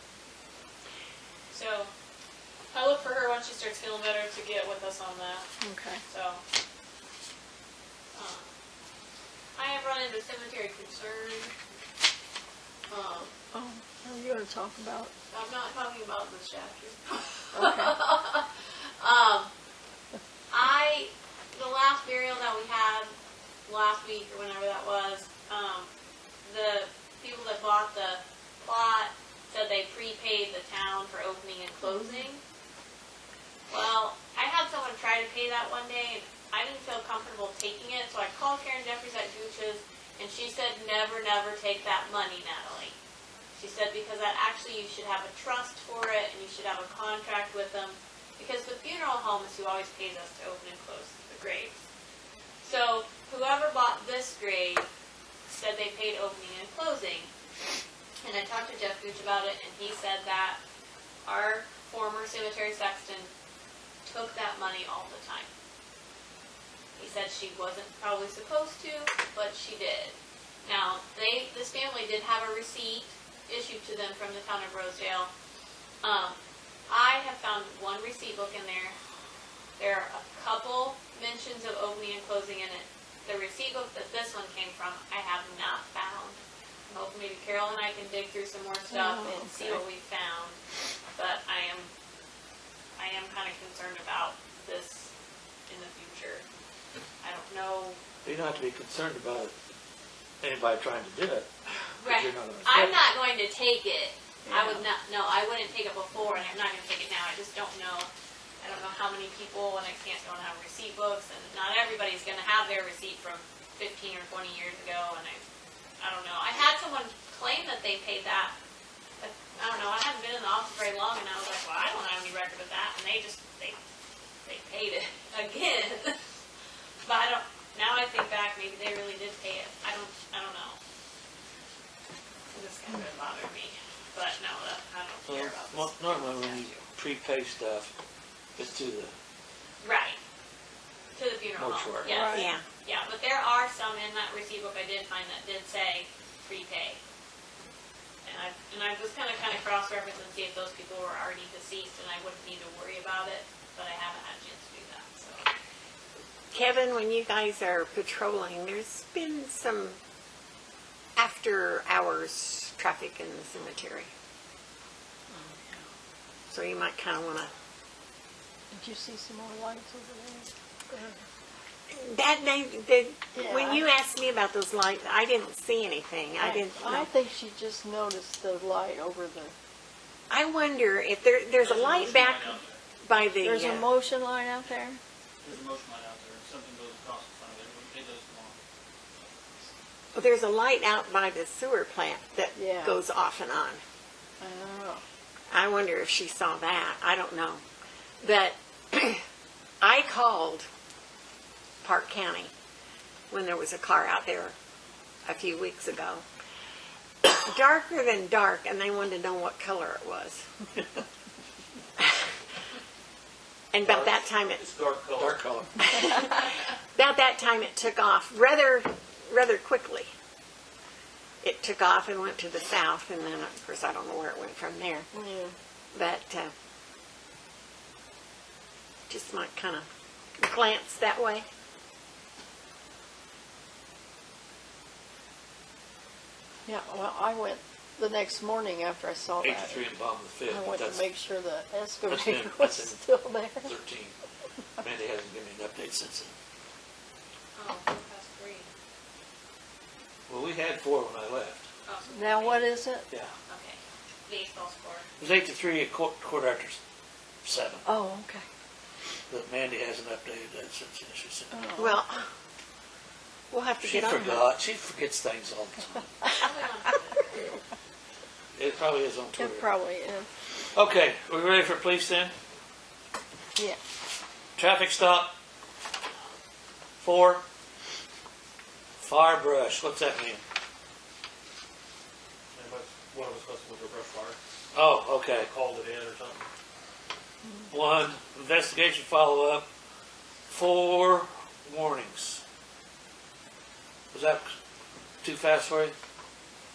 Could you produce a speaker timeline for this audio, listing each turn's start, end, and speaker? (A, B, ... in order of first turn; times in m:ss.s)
0:01.5-0:01.9 A
0:02.7-0:05.5 A
0:05.6-0:06.0 B
0:06.1-0:06.4 A
0:08.1-0:08.5 A
0:09.6-0:11.5 A
0:12.9-0:13.4 A
0:13.5-0:15.1 B
0:15.3-0:18.5 A
0:17.6-0:17.9 B
0:19.0-0:19.5 A
0:20.5-0:23.1 A
0:23.7-0:25.9 A
0:26.4-0:32.4 A
0:31.8-0:32.2 B
0:33.7-0:43.0 A
0:43.6-0:51.8 A
0:52.6-0:54.9 A
0:55.5-0:57.3 A
0:58.2-1:00.6 A
1:01.2-1:03.3 A
1:04.0-1:05.5 A
1:07.0-1:15.3 A
1:16.0-1:16.4 A
1:16.9-1:19.0 A
1:19.8-1:30.6 A
1:28.9-1:29.8 B
1:31.2-1:31.9 A
1:33.0-1:35.1 A
1:35.7-1:36.4 A
1:37.2-1:38.0 A
1:38.2-1:39.6 C
1:40.4-1:41.5 C
1:42.0-1:48.1 A
1:42.0-1:43.0 C
1:44.5-1:44.8 B
1:48.6-1:55.4 A
1:56.0-1:58.5 A
1:59.2-2:03.8 A
2:04.4-2:06.2 A
2:07.1-2:10.8 A
2:12.5-2:16.8 A
2:15.3-2:17.9 C
2:18.6-2:19.2 C
2:19.8-2:20.2 A
2:21.2-2:27.0 A
2:21.6-2:22.2 C
2:22.1-2:22.5 B
2:22.3-2:22.6 D
2:28.2-2:35.5 A
2:36.5-2:40.0 D
2:41.2-2:44.1 D
2:46.5-2:47.5 D
2:48.7-2:51.2 B
2:51.9-2:57.1 D
2:53.4-2:53.8 B
2:56.4-2:59.5 B
3:00.3-3:03.9 D
3:01.6-3:02.8 E
3:03.4-3:05.0 B
3:05.4-3:08.6 E
3:09.2-3:09.7 E
3:10.2-3:13.8 D
3:12.6-3:13.0 B
3:14.4-3:15.0 B
3:15.5-3:17.6 D
3:18.2-3:19.2 D
3:19.8-3:20.7 D
3:21.8-3:22.5 D
3:23.3-3:24.6 D
3:25.3-3:26.2 D
3:27.2-3:30.4 D
3:33.7-3:34.6 D
3:33.8-3:35.5 E
3:35.2-3:35.9 C
3:35.9-3:40.1 D
3:41.4-3:45.1 D
3:45.1-3:45.5 B
3:45.9-3:46.5 D
3:49.1-3:49.9 D
3:50.4-3:51.5 D
3:56.7-4:03.7 B
3:59.4-4:01.1 C
4:02.1-4:03.0 C
4:03.6-4:04.2 C
4:04.8-4:06.4 C
4:07.6-4:08.7 A
4:10.3-4:11.7 C
4:11.9-4:12.7 A
4:12.1-4:13.1 B
4:13.5-4:15.0 A
4:15.2-4:16.8 C
4:17.4-4:17.8 C
4:17.9-4:18.4 B
4:19.3-4:21.6 C
4:21.5-4:22.0 B
4:21.8-4:22.3 D
4:23.5-4:24.4 D
4:23.8-4:26.1 C
4:26.4-4:27.5 A
4:28.6-4:29.7 C
4:29.4-4:30.3 B
4:30.5-4:32.3 C
4:34.6-4:35.4 C
4:37.0-4:37.4 C
4:39.0-4:40.4 C
4:42.5-4:44.4 E
4:44.7-4:45.5 C
4:45.4-4:46.5 E
4:47.7-4:49.7 C
4:50.5-4:52.4 C
4:54.1-4:54.5 C
4:55.2-4:56.0 C